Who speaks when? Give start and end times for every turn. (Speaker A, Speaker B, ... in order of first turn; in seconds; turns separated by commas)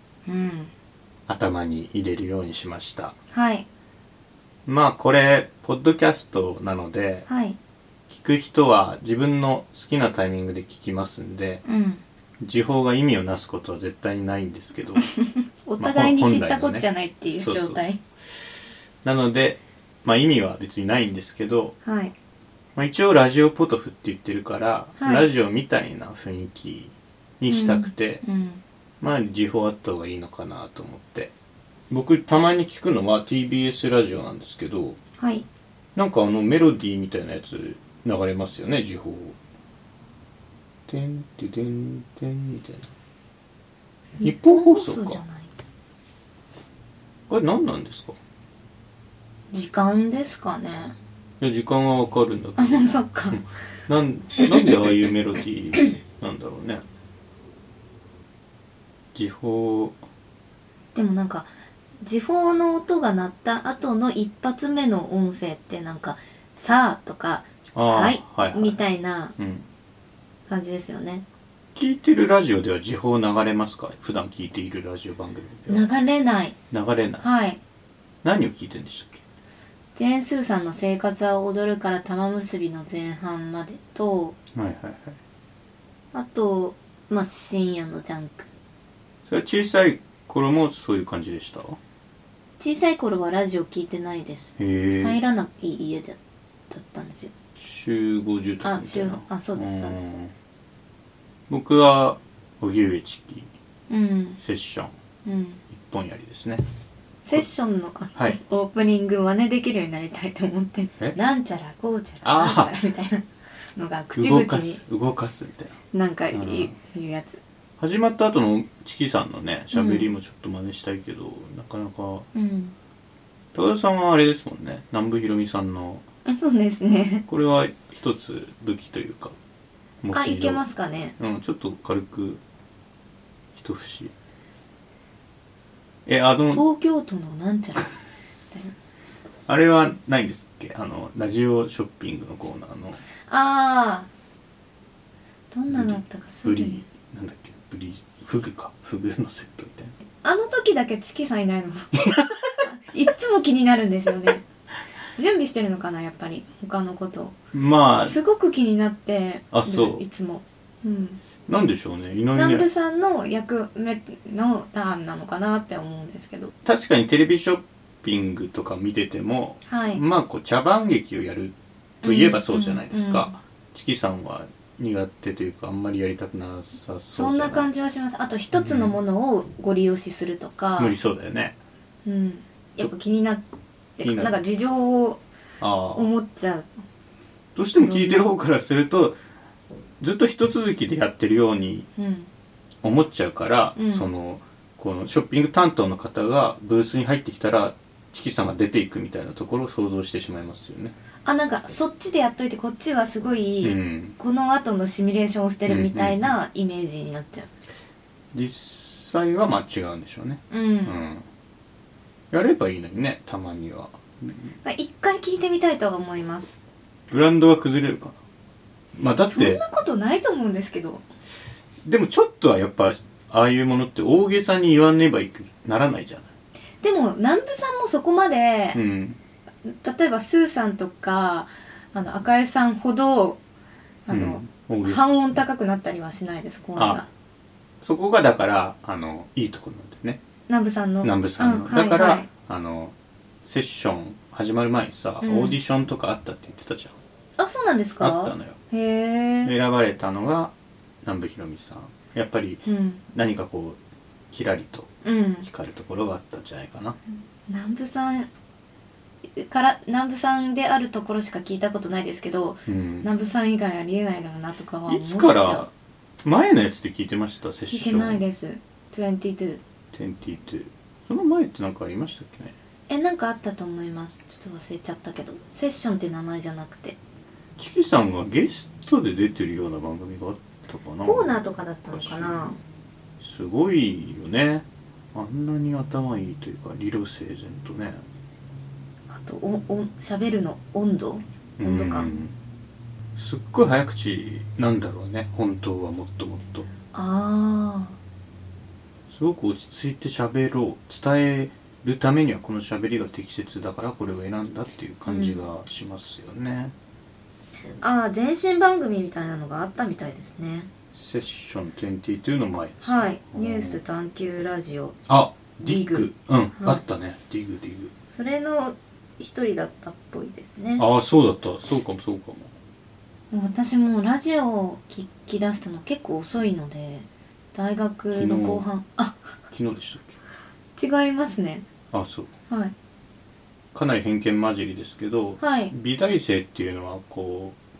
Speaker A: 0.2-0.7, Speaker B: 1.3-3.1, Speaker A: 3.3-3.6, Speaker B: 4.7-7.2, Speaker A: 7.3-7.6, Speaker B: 8.1-11.6, Speaker A: 11.6-12.0, Speaker B: 12.4-15.1, Speaker A: 15.2-18.0, Speaker B: 15.8-21.7, Speaker A: 21.8-22.1, Speaker B: 22.8-28.2, Speaker A: 25.0-25.3, Speaker A: 27.5-28.6, Speaker B: 29.0-31.3, Speaker B: 31.9-35.0, Speaker A: 35.2-35.4, Speaker B: 36.0-39.4, Speaker B: 40.9-42.9, Speaker B: 44.2-45.2, Speaker A: 44.2-45.5, Speaker B: 47.3-48.2, Speaker A: 49.5-51.0, Speaker B: 51.4-56.8, Speaker A: 52.6-53.4, Speaker B: 59.1-60.0, Speaker A: 60.9-69.3, Speaker B: 67.7-68.8, Speaker B: 69.4-69.7, Speaker A: 70.5-71.2, Speaker B: 71.7-75.9, Speaker A: 75.7-76.5, Speaker B: 76.7-77.2, Speaker A: 77.2-77.6, Speaker B: 78.2-79.2, Speaker A: 80.0-84.3, Speaker B: 84.5-85.2, Speaker A: 86.1-88.5, Speaker B: 89.3-91.8, Speaker A: 92.6-96.2, Speaker B: 94.6-95.2, Speaker A: 96.7-97.3, Speaker B: 97.6-100.3, Speaker A: 98.6-100.0, Speaker B: 101.5-103.5, Speaker A: 103.9-104.4, Speaker B: 104.4-104.9, Speaker A: 105.2-105.6, Speaker B: 105.7-106.6, Speaker A: 107.2-114.8, Speaker B: 112.2-112.7, Speaker B: 114.1-115.8, Speaker A: 115.9-117.4, Speaker B: 116.3-116.7, Speaker B: 117.8-122.3, Speaker A: 119.7-120.1, Speaker A: 122.3-122.8, Speaker B: 123.5-126.0, Speaker A: 126.2-127.2, Speaker B: 127.3-129.3, Speaker B: 130.0-130.6, Speaker A: 130.1-131.1, Speaker B: 131.2-132.4, Speaker B: 133.5-134.1, Speaker B: 136.1-136.6, Speaker A: 136.5-137.9, Speaker B: 139.5-143.0, Speaker A: 143.3-144.1, Speaker A: 145.5-146.8, Speaker B: 145.7-149.9, Speaker A: 150.2-152.0, Speaker A: 152.6-154.4, Speaker A: 155.2-157.4, Speaker B: 157.5-158.2, Speaker A: 157.9-161.2, Speaker B: 159.5-160.0, Speaker B: 161.5-162.7, Speaker A: 162.3-166.5, Speaker B: 166.6-177.7, Speaker A: 169.7-170.0, Speaker A: 172.0-173.3, Speaker A: 177.1-180.9, Speaker B: 178.5-179.0, Speaker B: 180.8-181.6, Speaker A: 182.0-183.4, Speaker A: 184.0-185.2, Speaker B: 184.0-184.4, Speaker B: 185.6-186.1, Speaker A: 185.9-186.7, Speaker B: 187.6-189.2, Speaker A: 187.8-188.3, Speaker B: 190.0-191.9, Speaker A: 192.0-192.3, Speaker B: 192.8-200.9, Speaker A: 193.7-194.1, Speaker A: 201.2-207.5, Speaker B: 203.6-204.2, Speaker B: 205.7-206.3, Speaker B: 208.3-211.2, Speaker A: 210.5-211.0, Speaker B: 212.3-214.5, Speaker A: 214.6-216.6, Speaker B: 217.1-218.2, Speaker B: 219.0-219.6, Speaker A: 219.2-221.0, Speaker B: 221.8-226.3, Speaker A: 226.8-228.8, Speaker B: 228.7-229.2, Speaker A: 229.6-233.4, Speaker A: 234.1-237.1, Speaker B: 234.1-235.1, Speaker B: 236.8-237.0, Speaker B: 237.8-240.2, Speaker A: 240.5-242.3, Speaker B: 241.0-247.0, Speaker A: 245.2-245.6, Speaker A: 247.4-249.5, Speaker B: 248.0-248.6, Speaker B: 249.4-253.8, Speaker A: 252.6-253.0, Speaker B: 254.3-257.0, Speaker A: 255.0-255.5, Speaker A: 257.5-258.3, Speaker A: 259.4-265.7, Speaker B: 262.7-263.1, Speaker B: 264.9-265.7, Speaker B: 266.2-268.2, Speaker A: 267.7-269.6, Speaker B: 269.9-272.5, Speaker A: 272.9-277.0, Speaker B: 277.6-281.4, Speaker A: 281.0-282.6, Speaker B: 281.9-282.6, Speaker B: 283.2-288.0, Speaker A: 289.1-292.2, Speaker B: 291.6-292.3, Speaker B: 293.1-296.7, Speaker A: 296.9-297.9, Speaker B: 299.1-306.7, Speaker A: 305.1-305.4, Speaker A: 307.8-310.7, Speaker B: 310.9-313.8, Speaker A: 312.8-315.0, Speaker B: 315.1-317.9, Speaker A: 315.6-316.8, Speaker A: 318.1-320.8, Speaker B: 320.8-322.5, Speaker A: 323.3-329.2, Speaker B: 328.1-328.6, Speaker B: 329.5-330.2, Speaker A: 330.8-331.6, Speaker B: 331.9-332.3, Speaker A: 332.5-332.7, Speaker B: 333.7-337.6, Speaker A: 335.4-335.7